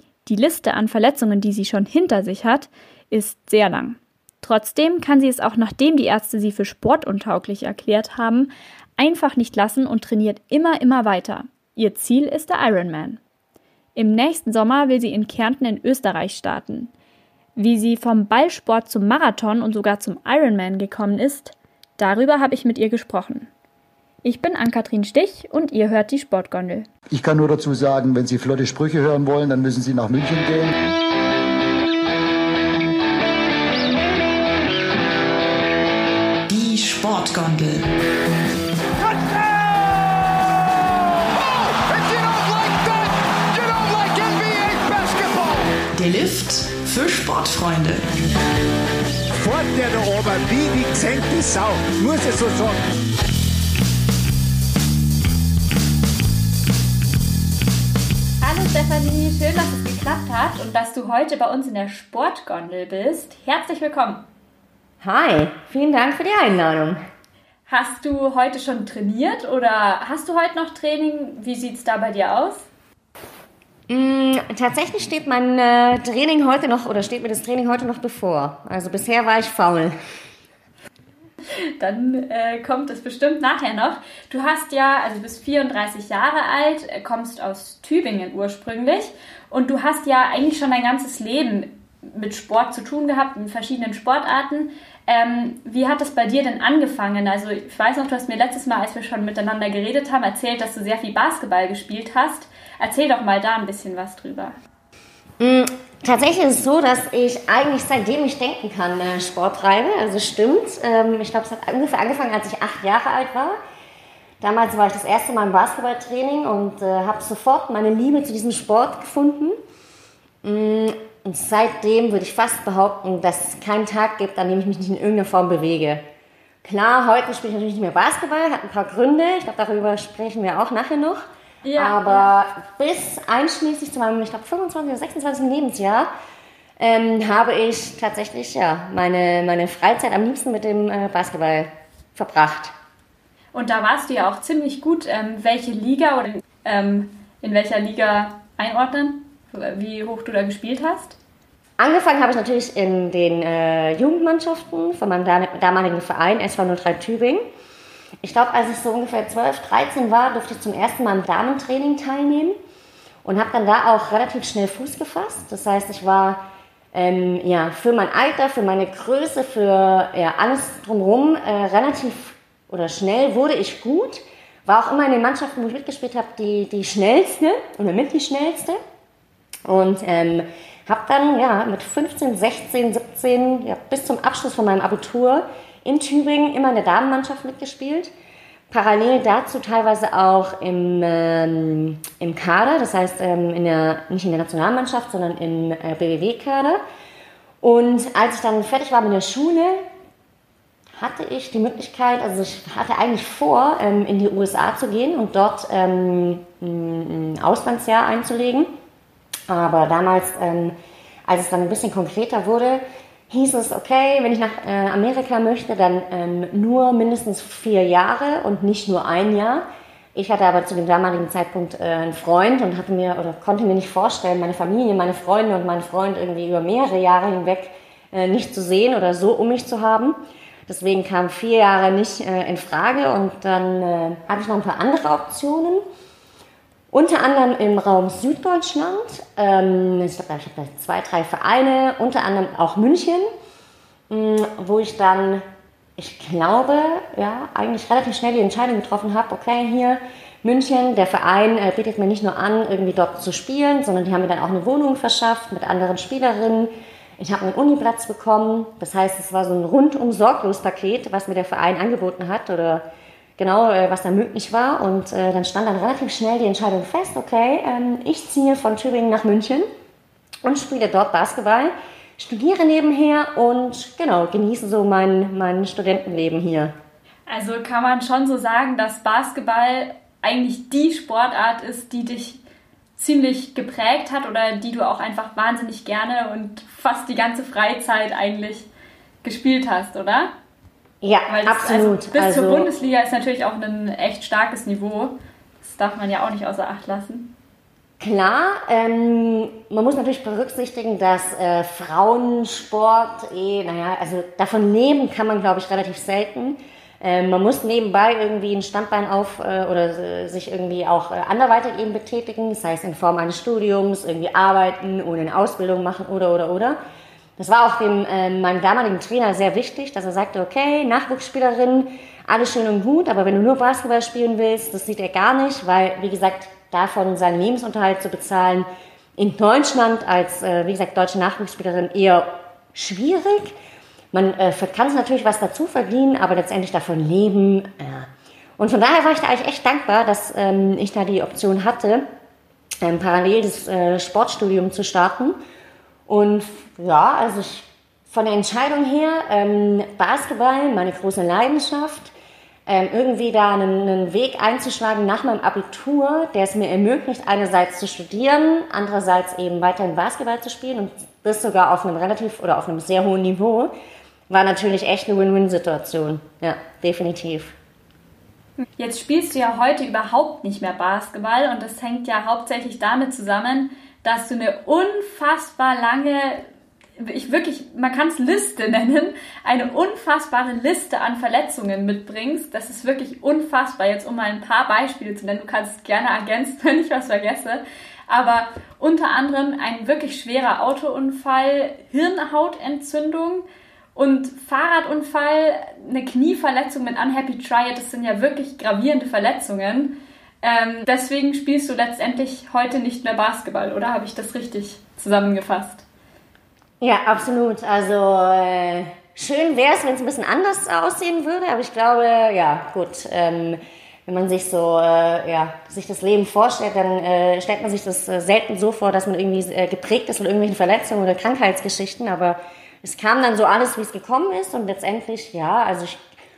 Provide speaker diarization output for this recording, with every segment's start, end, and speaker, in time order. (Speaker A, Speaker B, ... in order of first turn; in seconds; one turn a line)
Speaker A: 0.2-13.2
Speaker A: 13.9-16.9
Speaker A: 17.6-23.5
Speaker A: 24.2-26.9
Speaker B: 27.1-30.7
Speaker C: 36.5-37.9
Speaker D: 39.0-40.1
Speaker D: 40.9-45.7
Speaker C: 45.8-48.0
Speaker D: 49.3-52.8
Speaker A: 58.4-64.2
Speaker E: 65.0-67.0
Speaker A: 67.7-72.7
Speaker E: 73.9-79.9
Speaker A: 81.5-104.5
Speaker E: 105.4-113.5
Speaker E: 114.4-119.5
Speaker E: 120.4-126.0
Speaker E: 126.6-131.2
Speaker A: 131.6-132.3
Speaker E: 131.8-136.1
Speaker E: 136.8-142.7
Speaker A: 143.5-151.2
Speaker E: 151.8-157.4
Speaker E: 158.2-162.5
Speaker E: 163.2-178.8
Speaker E: 179.7-188.1
Speaker E: 188.7-196.8
Speaker E: 197.6-199.8
Speaker E: 201.0-208.7
Speaker E: 209.5-210.7
Speaker E: 211.3-219.6
Speaker E: 220.1-230.2
Speaker E: 230.7-235.8
Speaker E: 236.9-243.3
Speaker E: 244.1-245.4
Speaker E: 246.0-262.8
Speaker E: 263.4-269.6
Speaker E: 270.4-276.7
Speaker A: 277.3-282.4
Speaker A: 283.0-288.7
Speaker A: 289.2-290.3
Speaker E: 291.0-292.7
Speaker A: 291.3-297.3
Speaker E: 298.0-316.8
Speaker E: 317.4-333.5
Speaker E: 334.1-342.0
Speaker E: 342.8-345.4
Speaker E: 346.1-352.1
Speaker E: 352.7-363.7
Speaker E: 364.3-367.5
Speaker A: 368.8-376.4
Speaker A: 377.0-405.9
Speaker E: 406.8-426.0